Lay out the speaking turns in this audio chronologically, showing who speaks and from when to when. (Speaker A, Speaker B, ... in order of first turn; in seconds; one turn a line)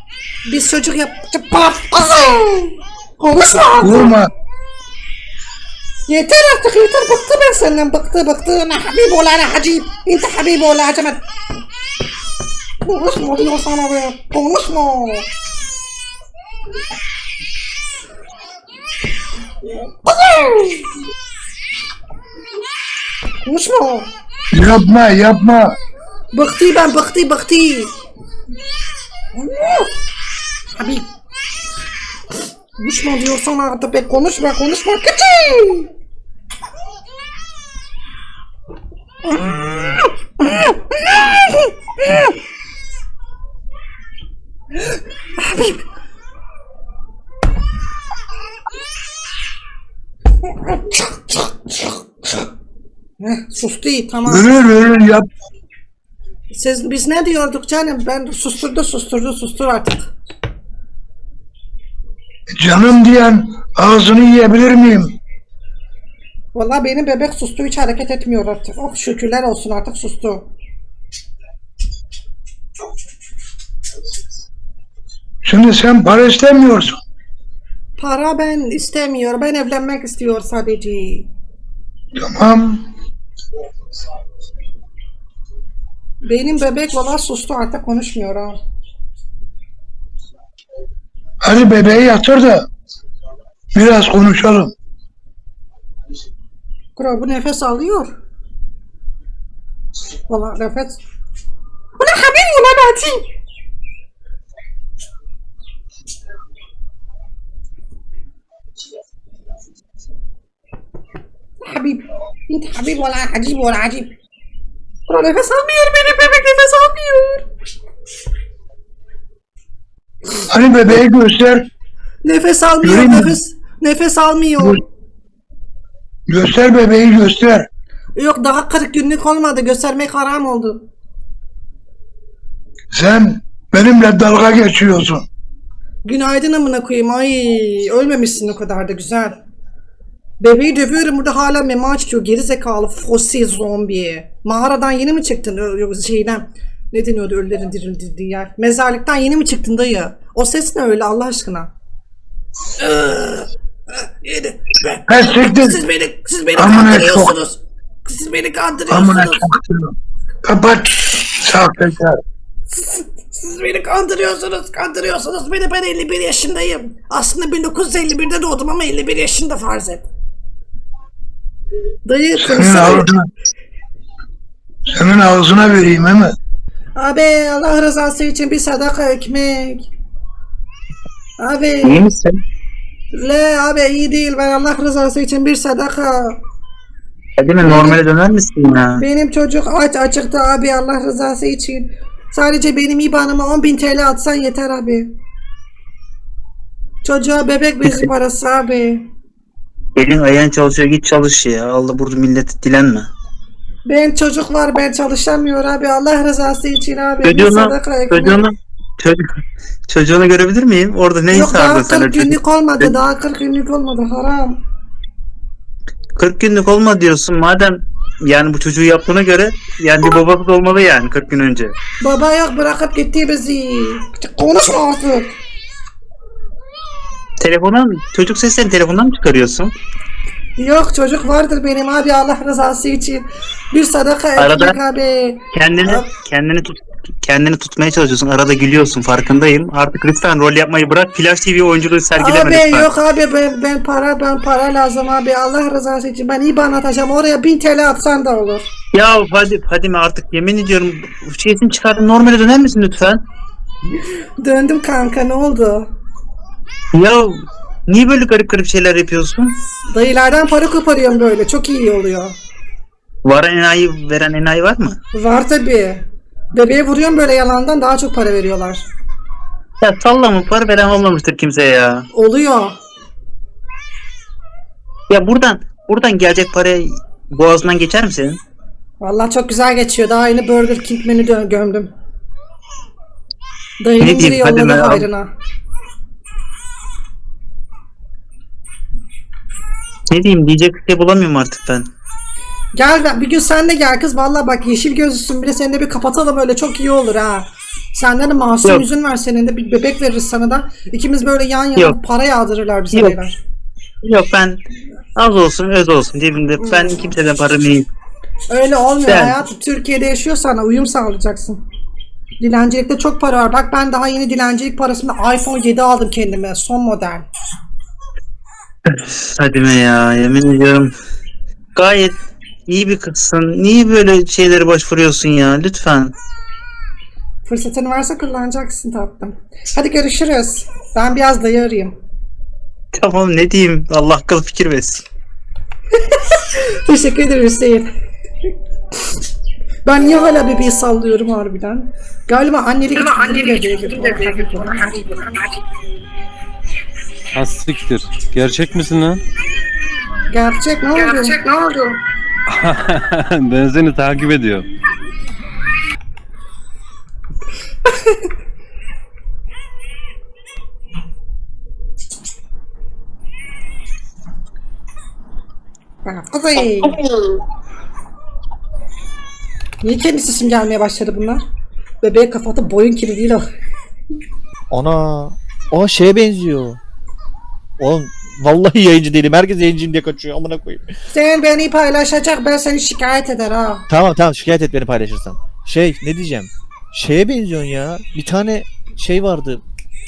Speaker A: 0.5-4.1
Speaker B: 3.8-4.3
Speaker A: 6.1-11.2
Speaker A: 12.8-15.3
Speaker A: 20.1-20.9
Speaker A: 23.4-24.1
Speaker B: 24.5-25.7
Speaker A: 26.3-27.9
Speaker A: 29.4-29.9
Speaker A: 30.7-31.1
Speaker A: 32.8-35.9
Speaker A: 39.4-42.3
Speaker A: 45.4-45.8
Speaker A: 50.4-52.0
Speaker A: 53.2-54.6
Speaker B: 54.3-55.2
Speaker A: 56.5-60.1
Speaker B: 62.6-65.2
Speaker A: 66.5-70.5
Speaker B: 75.4-77.0
Speaker A: 78.0-81.3
Speaker B: 82.2-82.9
Speaker A: 86.2-88.6
Speaker B: 91.4-92.7
Speaker B: 93.7-94.7
Speaker A: 97.0-98.1
Speaker A: 100.3-101.0
Speaker A: 102.0-103.2
Speaker A: 111.6-114.1
Speaker A: 115.1-117.5
Speaker B: 120.5-121.7
Speaker A: 122.2-124.8
Speaker B: 122.8-123.3
Speaker B: 126.3-127.7
Speaker A: 128.2-130.8
Speaker B: 132.9-135.2
Speaker A: 136.0-139.4
Speaker A: 140.4-151.7
Speaker A: 152.8-159.5
Speaker B: 155.1-155.8
Speaker B: 156.6-157.3
Speaker B: 158.9-162.2
Speaker A: 162.8-170.1
Speaker A: 172.1-173.1
Speaker B: 172.4-173.3
Speaker B: 174.9-176.3
Speaker A: 176.9-179.9
Speaker A: 181.4-182.0
Speaker C: 181.8-182.4
Speaker A: 183.1-186.4
Speaker C: 187.4-189.0
Speaker A: 187.6-188.0
Speaker A: 189.0-195.1
Speaker A: 197.0-199.0
Speaker C: 200.0-203.1
Speaker A: 203.8-208.4
Speaker C: 207.2-209.2
Speaker C: 209.9-212.9
Speaker A: 211.3-214.6
Speaker C: 216.2-221.7
Speaker A: 222.0-225.4
Speaker C: 227.4-229.7
Speaker A: 230.6-236.0
Speaker C: 234.4-234.8
Speaker C: 235.5-242.9
Speaker A: 242.2-248.7
Speaker C: 248.9-253.2
Speaker A: 254.4-255.9
Speaker C: 256.9-257.4
Speaker C: 257.9-259.5
Speaker A: 259.9-262.4
Speaker C: 263.2-265.0
Speaker A: 265.1-268.9
Speaker C: 269.8-272.1
Speaker A: 272.1-272.7
Speaker C: 275.1-278.4
Speaker A: 279.0-281.9
Speaker A: 283.8-285.3
Speaker C: 284.0-285.1
Speaker C: 290.1-291.9
Speaker A: 292.7-303.4
Speaker C: 304.0-304.6
Speaker C: 305.1-307.9
Speaker A: 306.6-307.1
Speaker A: 308.5-311.6
Speaker C: 309.0-309.4
Speaker A: 312.4-317.3
Speaker C: 318.9-320.9
Speaker C: 321.7-322.1
Speaker C: 322.7-326.1
Speaker A: 327.4-331.9
Speaker C: 332.9-335.0
Speaker A: 336.1-337.9
Speaker A: 339.8-345.0
Speaker D: 347.3-349.2
Speaker A: 350.3-351.4
Speaker D: 352.5-354.7
Speaker A: 366.0-367.0
Speaker A: 369.8-371.4
Speaker A: 372.0-373.4
Speaker E: 374.7-376.8
Speaker E: 377.8-380.9
Speaker A: 381.1-383.9
Speaker E: 383.9-389.6